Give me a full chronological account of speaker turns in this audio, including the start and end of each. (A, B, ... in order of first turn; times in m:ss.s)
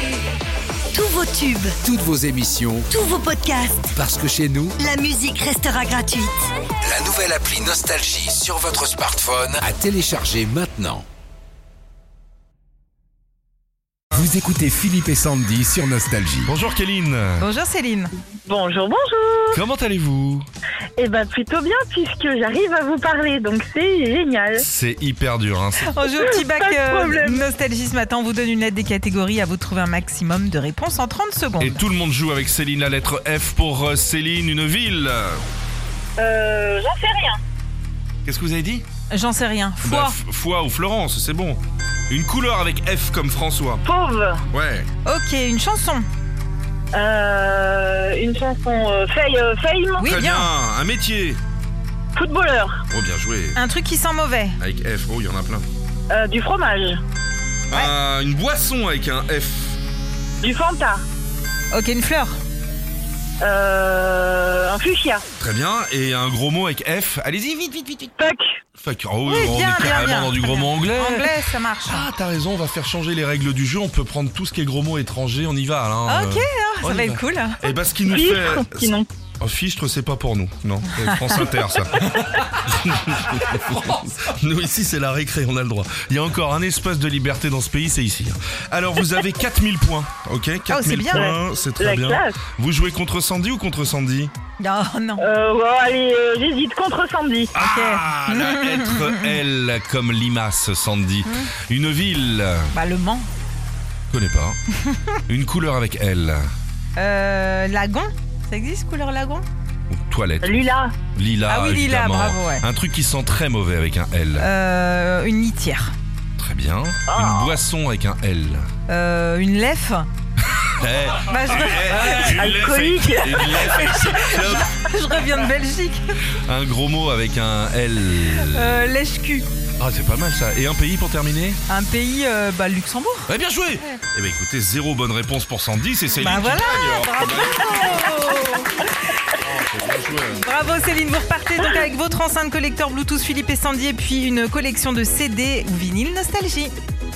0:00.9-0:01.8 A
0:01.8-0:02.9 B
0:02.9-0:03.9 A
0:03.9-0:04.8 B
0:04.8-0:06.3 A
0:06.8-0:11.0 B
0:14.1-0:16.5 B
0:16.5-0:17.5 C
0:17.4-0:18.1 D
0:18.4-0:19.6 E
0:19.5-0:20.5 C
0:21.0-0:24.6 E
0:24.6-0:26.0 C
0:25.9-0:31.8 D
0:26.2-0:27.4 E
0:31.6-0:35.4 C
0:36.2-0:37.4 E
0:38.3-0:38.8 C
0:39.1-0:40.2 D
0:39.8-0:43.8 C
0:43.8-0:44.4 E
0:44.5-0:44.9 C
0:45.0-0:46.0 D
0:46.9-0:50.0 E
0:50.0-0:50.5 D
0:50.0-0:51.4 C
0:52.2-0:52.8 E
0:52.9-0:53.6 C
0:53.5-0:54.6 D
0:54.6-0:55.6 C
0:56.1-0:57.0 E
0:57.7-0:59.8 C
1:00.4-1:01.0 E
1:01.7-1:02.4 D
1:03.4-1:05.2 E
1:05.4-1:08.2 C
1:08.2-1:08.5 E
1:08.8-1:11.3 C
1:09.3-1:12.0 D
1:11.9-1:34.3 C
1:16.1-1:17.6 D
1:18.1-1:19.1 E
1:21.1-1:21.4 D
1:30.7-1:31.3 D
1:31.1-1:32.4 E
1:34.6-1:35.2 D
1:35.2-1:37.5 E
1:37.6-1:42.7 C
1:37.6-1:39.1 D
1:42.7-1:43.3 D
1:44.1-1:44.6 C
1:45.3-1:46.5 C
1:47.0-1:49.4 D
1:49.9-1:54.5 C
1:50.4-1:51.0 E
1:51.5-1:52.6 D
1:54.4-1:55.9 D
1:56.4-1:58.7 C
1:57.1-1:57.6 E
1:58.9-2:00.1 D
2:00.5-2:04.7 C
2:01.2-2:02.4 D
2:02.1-2:03.5 E
2:03.5-2:06.0 D
2:06.4-2:08.9 C
2:08.2-2:09.5 D
2:09.8-2:11.6 C
2:11.7-2:14.0 D
2:13.3-2:18.2 C
2:16.2-2:19.2 D
2:19.4-2:20.4 C
2:20.4-2:26.7 D